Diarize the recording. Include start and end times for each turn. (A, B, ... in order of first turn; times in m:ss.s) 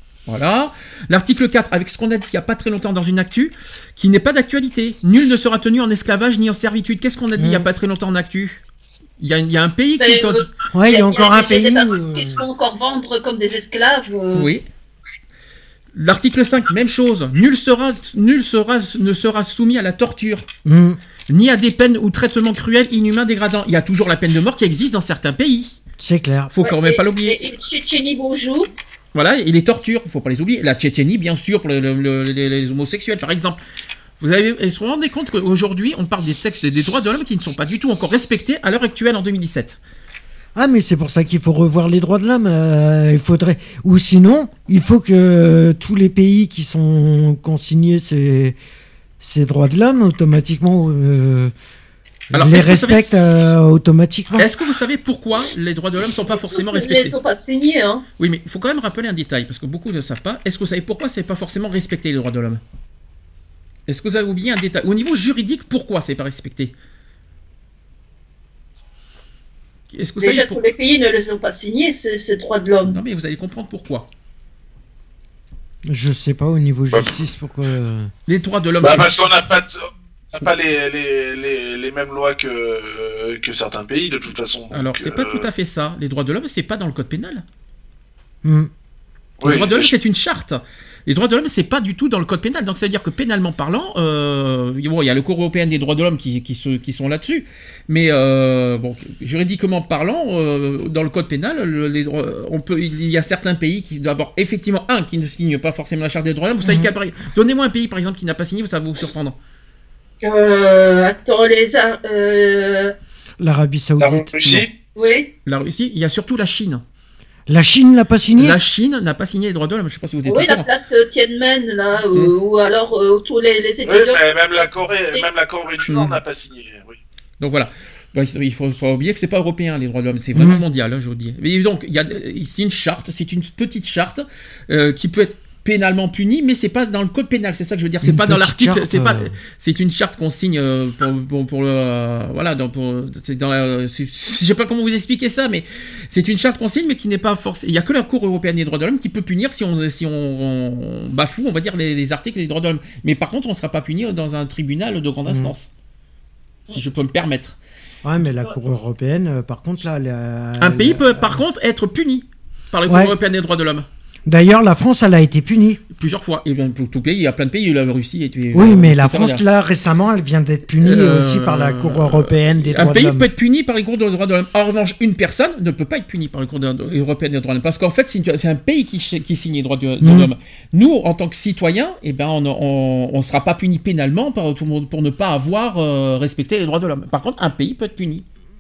0:00.3-0:08.6 A
0:07.4-0:07.7 B
0:09.2-0:10.5 A
0:10.0-0:14.5 C
0:10.7-0:12.4 B
0:14.3-0:14.6 A
0:16.0-0:20.4 A
0:20.6-0:21.0 B
0:21.3-0:25.8 A
0:26.0-0:26.5 B
0:26.5-0:27.4 A
0:26.6-0:28.7 C
0:29.1-0:33.6 A
0:34.2-0:39.8 A
0:40.6-0:48.6 B
0:49.2-0:51.5 B
0:52.3-0:53.0 A
0:52.3-0:54.5 B
0:54.4-0:57.2 A
0:56.3-0:58.0 C
0:58.2-1:02.6 A
1:03.9-1:06.7 A
1:09.9-1:10.6 A
1:10.2-1:13.0 C
1:12.9-1:14.1 A
1:15.9-1:18.1 B
1:18.3-1:19.2 A
1:18.8-1:25.5 D
1:24.7-1:27.4 A
1:28.4-1:28.7 B
1:29.4-1:29.9 D
1:29.4-1:49.4 A
1:46.6-1:46.9 B
1:50.2-1:53.0 C
1:53.4-1:54.7 B
1:54.0-1:54.7 D
1:55.0-1:55.3 C
1:55.5-1:56.8 A
1:57.5-1:58.6 B
1:58.4-2:00.7 A
2:00.2-2:04.2 C
2:03.9-2:07.0 D
2:05.9-2:06.2 A
2:07.4-2:35.7 A
2:10.3-2:10.6 B
2:18.0-2:19.4 B
2:35.3-2:35.5 B
2:36.7-2:37.6 A
2:38.0-2:41.4 B
2:40.6-2:43.9 A
2:42.9-2:43.2 B
2:44.3-2:45.8 B
2:46.0-2:49.4 A
2:48.5-2:53.3 B
2:50.8-3:08.2 A
3:00.0-3:00.3 B